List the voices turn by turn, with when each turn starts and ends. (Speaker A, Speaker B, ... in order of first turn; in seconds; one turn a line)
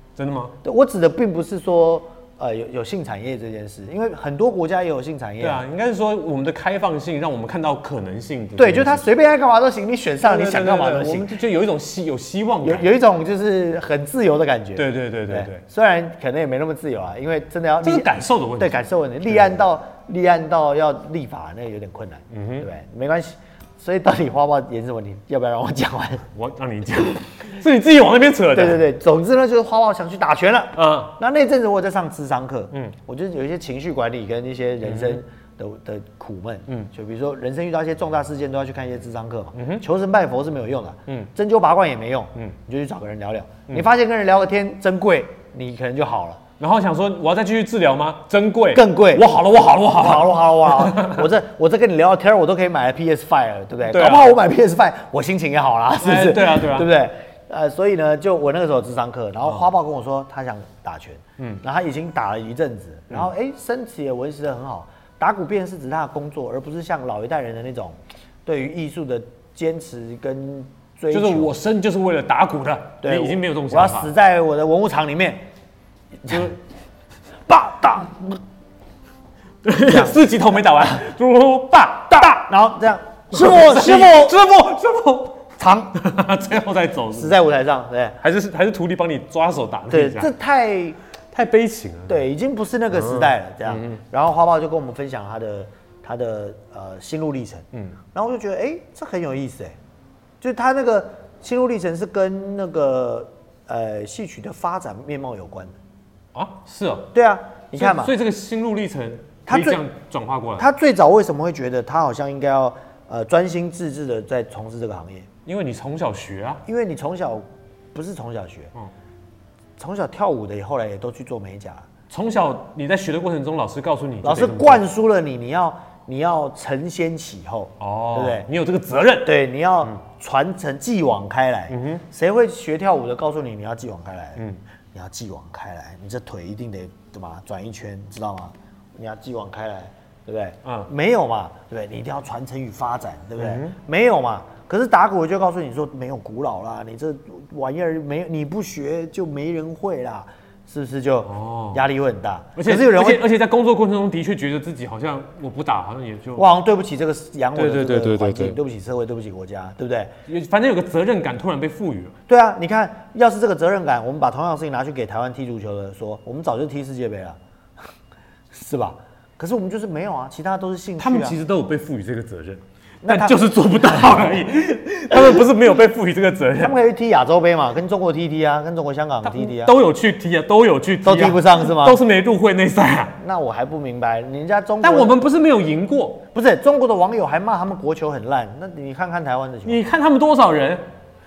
Speaker A: 0.1-0.5
Speaker B: 0.6-5.6
Speaker A: 5.4-9.1
Speaker B: 8.6-11.4
Speaker A: 10.2-12.9
Speaker B: 12.6-26.2
Speaker A: 14.8-15.6
Speaker A: 17.8-18.8
Speaker A: 22.3-22.7
Speaker A: 26.3-28.8
Speaker B: 28.5-46.4
Speaker A: 30.8-31.1
Speaker A: 34.8-35.2
Speaker A: 39.5-39.8
Speaker A: 46.6-51.2
Speaker B: 48.7-49.3
Speaker B: 49.9-71.5
Speaker A: 53.9-54.3
Speaker A: 56.0-56.9
Speaker A: 71.1-74.1
Speaker B: 73.0-75.4
Speaker B: 76.2-76.5
Speaker A: 76.3-76.5
Speaker B: 77.5-78.4
Speaker A: 79.6-82.5
Speaker B: 79.8-80.2
Speaker B: 82.1-84.4
Speaker A: 83.3-87.3
Speaker B: 85.6-85.9
Speaker B: 87.1-88.2
Speaker A: 88.2-90.3
Speaker B: 89.9-91.0
Speaker A: 91.3-92.2
Speaker B: 92.1-99.8
Speaker A: 92.9-94.0
Speaker B: 100.4-105.8
Speaker A: 106.3-107.1
Speaker B: 107.1-108.1
Speaker A: 107.8-110.7
Speaker B: 109.5-109.8
Speaker B: 110.6-115.3
Speaker A: 115.5-116.6
Speaker B: 116.7-118.7
Speaker B: 119.8-121.9
Speaker A: 122.1-124.8
Speaker B: 124.2-128.5
Speaker A: 127.8-130.0
Speaker B: 129.2-134.4
Speaker A: 131.7-132.0
Speaker B: 134.9-153.2
Speaker A: 140.6-140.9
Speaker A: 143.4-143.8
Speaker A: 151.2-151.8
Speaker A: 152.6-156.5
Speaker B: 156.3-160.1
Speaker A: 157.6-158.6
Speaker A: 160.3-162.1
Speaker B: 162.3-167.4
Speaker B: 168.5-171.3
Speaker A: 171.0-176.8
Speaker B: 173.0-174.3
Speaker B: 176.6-179.7
Speaker A: 179.2-183.2
Speaker B: 181.0-182.0
Speaker B: 183.2-185.2
Speaker A: 184.8-186.2
Speaker B: 186.3-189.8
Speaker A: 189.6-190.8